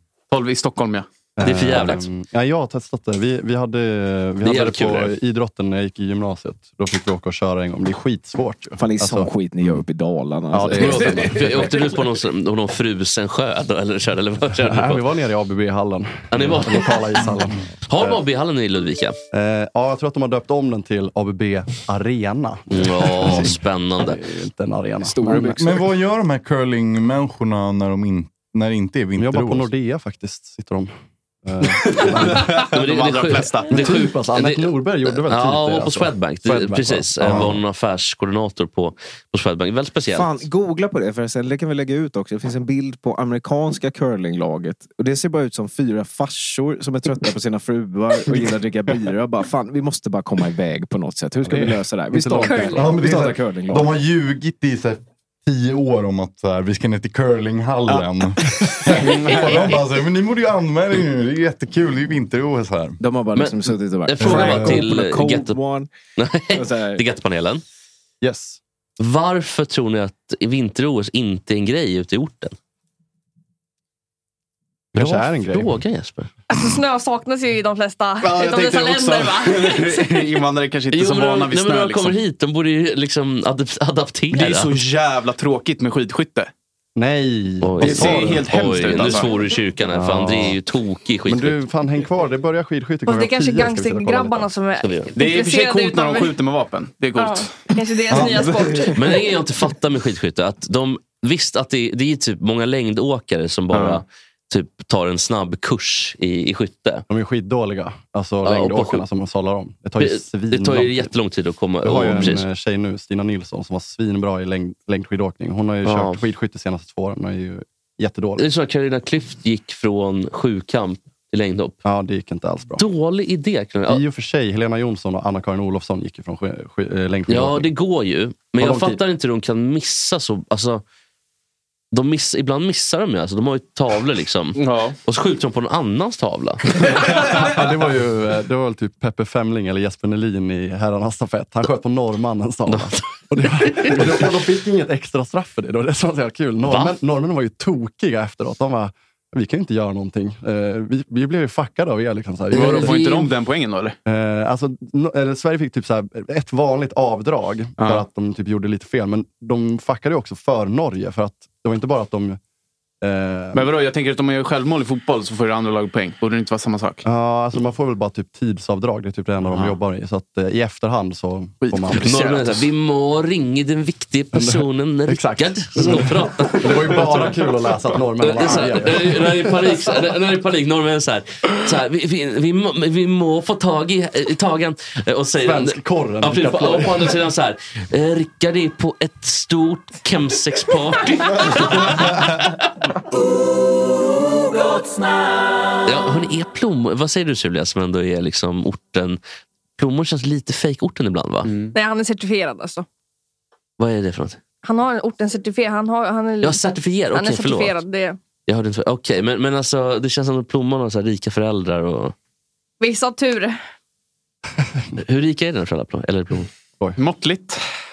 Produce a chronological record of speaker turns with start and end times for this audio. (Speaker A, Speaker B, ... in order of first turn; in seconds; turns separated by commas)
Speaker A: 0.3-1.1, Speaker B: 1.4-9.8, Speaker C: 1.4-2.1, Speaker C: 4.4-5.1, Speaker D: 8.8-11.7, Speaker B: 10.5-11.7, Speaker C: 10.8-15.0, Speaker B: 14.6-18.2, Speaker C: 16.3-17.0, Speaker C: 17.9-19.2, Speaker B: 19.3-25.7, Speaker C: 22.7-24.2, Speaker E: 23.2-23.5, Speaker D: 25.0-25.8, Speaker E: 25.6-29.7, Speaker B: 29.2-30.9, Speaker B: 31.4-32.5, Speaker A: 32.0-33.8, Speaker C: 32.0-40.5, Speaker B: 33.7-37.6, Speaker E: 37.2-37.5, Speaker D: 40.1-54.0, Speaker B: 51.5-52.7, Speaker F: 52.4-52.9, Speaker E: 52.7-63.0, Speaker A: 58.9-59.8, Speaker D: 63.0-65.9, Speaker C: 63.3-65.6, Speaker E: 64.2-64.8, Speaker C: 66.2-67.6, Speaker D: 66.5-67.0, Speaker B: 68.2-68.6, Speaker C: 69.0-72.5, Speaker B: 74.9-75.7, Speaker C: 74.9-76.3, Speaker F: 76.5-80.1, Speaker A: 78.2-82.2, Speaker C: 80.9-84.8, Speaker A: 84.3-86.5, Speaker B: 87.0-89.2, Speaker C: 87.6-91.6, Speaker A: 87.8-89.3, Speaker B: 89.9-90.6, Speaker B: 91.2-94.5, Speaker F: 93.0-96.3, Speaker C: 94.8-95.2, Speaker A: 95.1-98.9, Speaker F: 97.2-99.2, Speaker C: 98.9-107.0, Speaker A: 103.7-104.0, Speaker B: 107.1-111.1, Speaker C: 108.4-109.0, Speaker C: 110.0-112.4, Speaker B: 111.8-118.5, Speaker C: 115.8-116.2, Speaker C: 118.4-121.8, Speaker B: 121.8-122.8, Speaker C: 122.8-124.0, Speaker B: 123.9-127.7, Speaker C: 127.3-130.8, Speaker B: 128.6-129.0, Speaker C: 131.9-137.3, Speaker A: 134.6-134.9, Speaker B: 137.3-153.0, Speaker C: 142.7-144.3, Speaker C: 146.6-147.0, Speaker C: 152.5-153.3, Speaker A: 152.5-153.9, Speaker B: 154.1-162.4, Speaker A: 157.8-158.1, Speaker B: 163.0-163.7, Speaker A: 163.5-167.0, Speaker B: 167.0-172.3, Speaker A: 171.6-172.6, Speaker C: 171.9-177.3, Speaker B: 174.3-179.9, Speaker C: 178.2-192.4, Speaker B: 185.4-187.1, Speaker C: 195.8-199.2, Speaker C: 199.8-201.5, Speaker A: 201.4-201.8, Speaker F: 201.7-202.8, Speaker C: 203.8-204.4, Speaker F: 204.6-206.6, Speaker C: 206.4-207.8, Speaker F: 207.1-208.2, Speaker C: 208.5-212.1, Speaker F: 212.8-213.6, Speaker C: 215.0-216.5, Speaker A: 217.0-217.6